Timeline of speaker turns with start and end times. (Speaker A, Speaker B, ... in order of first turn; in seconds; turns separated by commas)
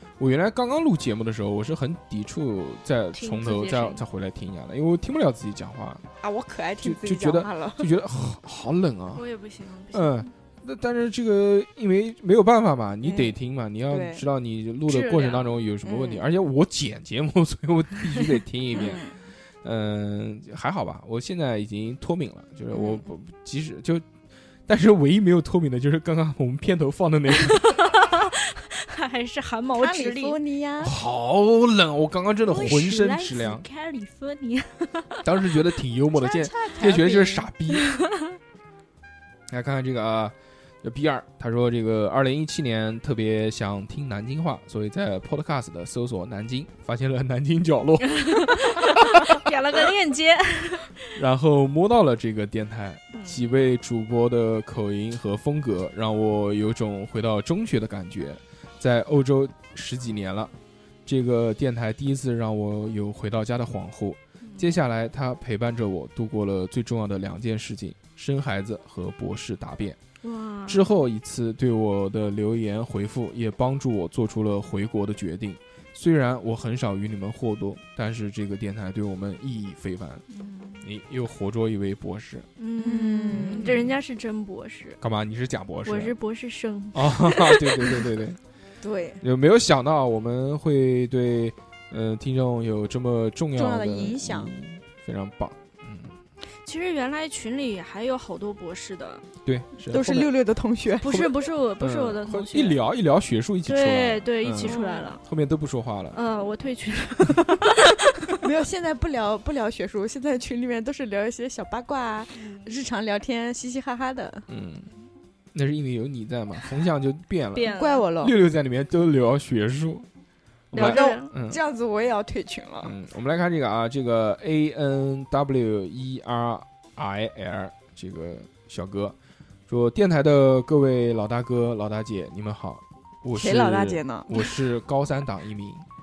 Speaker A: 0.2-6.0, Speaker B: 3.1-4.0, Speaker C: 6.2-7.9, Speaker A: 6.8-9.2, Speaker B: 9.2-10.3, Speaker A: 9.9-19.0, Speaker C: 13.0-13.3, Speaker C: 13.9-14.2, Speaker B: 14.9-15.7, Speaker C: 15.8-16.3, Speaker C: 18.8-19.1, Speaker A: 19.6-24.0, Speaker C: 22.7-23.0, Speaker A: 24.7-27.8, Speaker B: 27.6-30.4, Speaker C: 29.8-30.9, Speaker A: 30.8-33.6, Speaker B: 32.5-35.2, Speaker C: 32.5-32.8, Speaker A: 35.2-37.9, Speaker C: 36.1-37.5, Speaker B: 37.9-38.4, Speaker A: 39.5-49.0, Speaker B: 48.1-51.0, Speaker A: 51.1-60.5, Speaker B: 53.1-53.5, Speaker A: 61.1-70.0, Speaker B: 64.4-64.8, Speaker B: 70.2-70.8, Speaker A: 70.7-80.2, Speaker B: 80.3-80.8, Speaker A: 80.8-82.5, Speaker B: 82.6-85.0, Speaker C: 82.8-83.9, Speaker A: 83.4-83.9, Speaker A: 85.0-86.2, Speaker B: 85.8-88.1, Speaker A: 86.9-88.4, Speaker C: 88.8-89.2, Speaker A: 89.2-96.1, Speaker C: 93.5-94.5, Speaker B: 96.6-99.2, Speaker A: 99.5-100.3, Speaker C: 99.9-101.3, Speaker B: 101.0-102.8, Speaker A: 101.8-106.2, Speaker B: 103.7-105.2, Speaker C: 104.6-105.2, Speaker B: 106.1-108.3, Speaker C: 108.4-114.5, Speaker A: 114.5-114.9, Speaker A: 115.5-120.1, Speaker B: 117.5-118.1, Speaker C: 117.7-118.4, Speaker A: 120.7-121.6, Speaker B: 120.7-121.3, Speaker C: 120.7-122.9, Speaker A: 122.8-129.2, Speaker A: 129.7-135.8, Speaker C: 133.3-134.5